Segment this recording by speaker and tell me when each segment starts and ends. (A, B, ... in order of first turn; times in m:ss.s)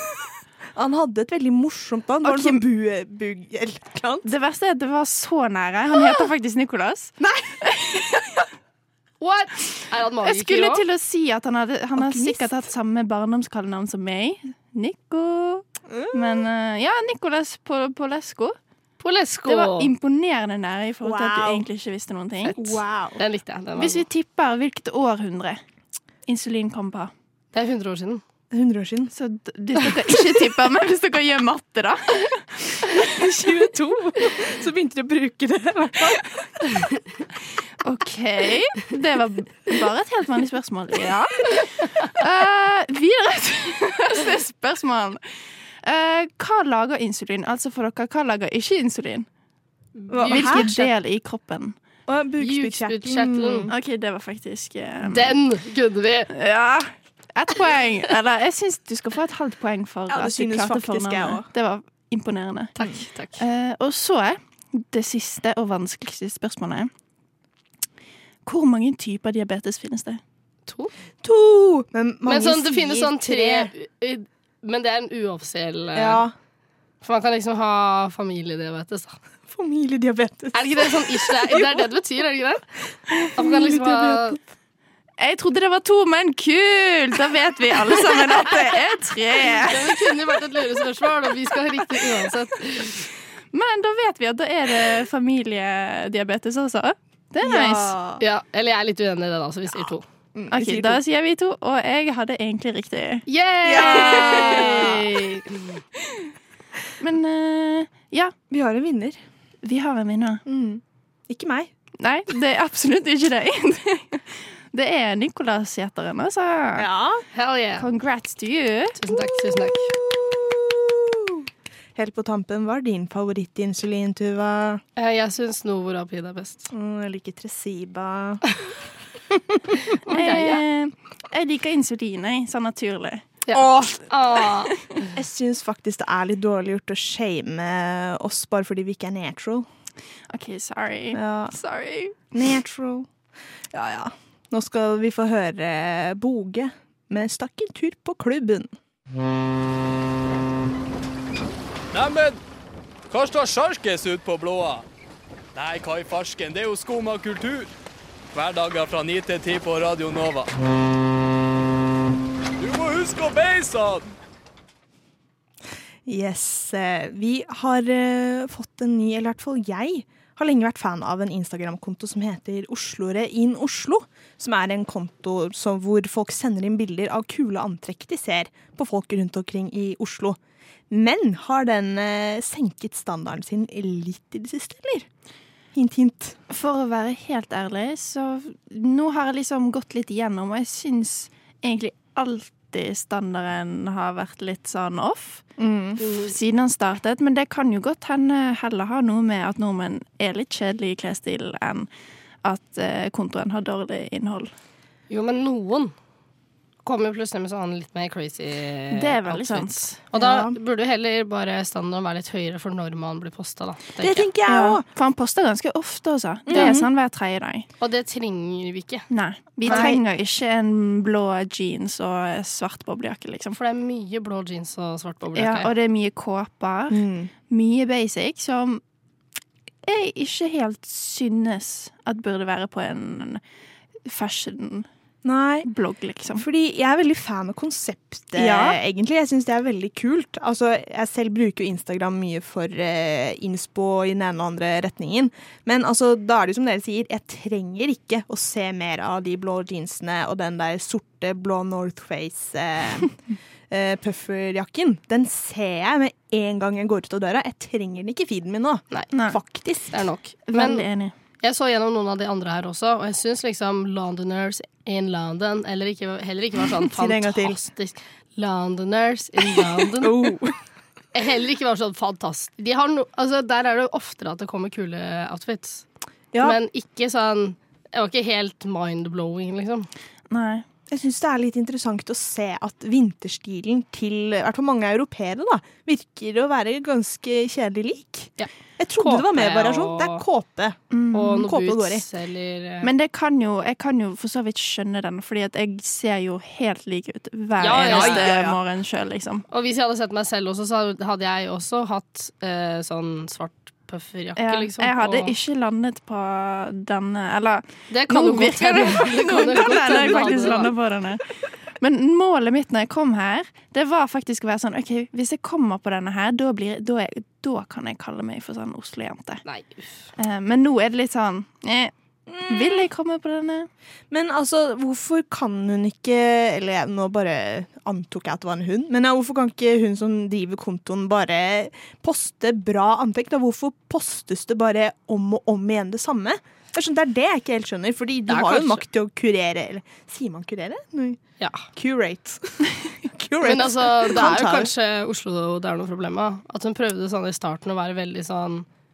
0:00.7-0:04.3 A
0:02.2-0:02.6 B
0:04.2-0:08.4 B
0:07.2-0:07.7 A
0:09.2-0:10.8 C
0:10.2-0:18.6 B
0:12.0-0:12.6 A
0:15.9-0:16.4 A
0:19.0-0:19.9 C
0:19.4-0:22.6 B
0:21.0-0:21.7 A
0:22.4-0:24.0 C
0:22.6-0:23.2 A
0:23.8-0:25.6 B
0:26.3-0:27.1 B
0:27.5-0:28.2 C
0:28.5-0:29.1 A
0:29.1-0:33.1 B
0:33.0-0:36.6 A
0:37.8-0:45.2 B
0:45.8-0:49.3 B
0:50.0-0:50.7 C
0:50.1-0:50.9 A
0:50.2-0:51.8 B
0:52.1-0:53.7 A
0:52.4-0:53.7 C
0:53.7-0:55.4 B
0:55.0-0:56.3 C
0:56.3-1:02.7 B
1:00.1-1:01.4 A
1:02.8-1:03.4 C
1:03.4-1:06.9 B
1:08.4-1:10.2 B
1:11.2-1:13.7 A
1:12.2-1:16.2 C
1:15.9-1:16.3 A
1:17.0-1:19.2 C
1:19.5-1:21.8 A
1:20.5-1:22.6 C
1:23.1-1:24.4 A
1:23.3-1:24.4 C
1:25.2-1:29.9 B
1:29.5-1:33.0 C
1:33.5-1:38.0 B
1:37.4-1:38.2 A
1:38.2-1:40.0 C
1:40.3-1:41.0 A
1:40.5-1:43.2 B
1:43.3-1:45.8 C
1:43.6-1:45.2 A
1:43.8-1:44.9 B
1:47.0-1:48.3 B
1:48.5-1:49.2 A
1:49.6-1:50.4 B
1:50.4-1:51.7 A
1:52.0-1:56.9 B
1:56.8-1:57.2 A
1:57.3-1:57.8 C
1:57.8-1:59.0 B
1:59.0-1:59.9 C
1:59.1-2:04.8 A
2:05.0-2:06.7 C
2:06.7-2:08.4 A
2:09.3-2:09.7 A
2:10.0-2:10.6 C
2:10.1-2:14.4 B
2:13.5-2:14.9 C
2:15.1-2:19.6 A
2:20.3-2:22.1 B
2:21.1-2:21.5 A
2:22.3-2:23.1 A
2:23.7-2:28.7 A
2:31.9-2:32.4 D
2:33.1-2:34.8 D
2:35.5-2:37.7 D
2:38.3-2:40.5 D
2:42.6-2:44.1 D
2:46.0-3:00.4 A
3:00.9-3:05.1 A
3:05.7-3:06.4 A
3:06.5-3:15.4 B
3:15.6-3:16.0 A
3:16.0-3:16.3 C
3:16.2-3:21.9 B
3:22.4-3:24.5 B
3:25.1-3:25.9 C
3:26.8-3:34.3 C
3:28.9-3:30.0 B
3:30.1-3:30.6 A
3:34.0-3:34.8 A
3:34.4-3:37.6 B
3:36.5-3:36.9 A
3:36.5-3:36.8 C
3:37.8-3:39.0 C
3:39.1-3:43.6 B
3:39.6-3:39.9 C
3:39.6-3:40.0 A
3:43.5-3:45.7 C
3:45.3-3:48.8 B
3:46.9-3:47.3 A
3:49.8-3:53.4 B
3:54.0-3:54.9 B
3:55.2-3:55.7 A
3:55.6-3:56.4 B
3:56.3-4:13.1 A
3:58.4-3:58.8 B
4:13.7-4:20.0 A
4:19.1-4:19.4 B
4:19.9-4:20.8 C
4:20.5-4:21.1 B
4:21.4-4:30.3 C
4:26.8-4:27.6 A
4:30.0-4:30.5 A
4:31.1-4:35.8 C
4:36.4-4:39.9 C
4:40.3-4:40.6 B
4:40.9-4:52.0 A
4:48.4-4:50.2 C
4:50.9-4:51.4 B
4:51.1-4:52.9 C
4:52.8-4:59.4 B
4:57.6-4:58.3 C
4:57.8-4:58.6 A
4:59.5-5:05.3 C
5:04.4-5:11.2 B
5:07.9-5:10.7 C
5:09.8-5:10.5 A
5:11.8-5:19.4 B
5:19.4-5:19.9 C
5:20.2-5:21.9 B
5:22.3-5:22.9 A
5:22.4-5:23.7 B
5:24.1-5:41.2 A
5:38.3-5:38.8 C
5:41.8-5:44.7 A
5:43.4-5:48.6 C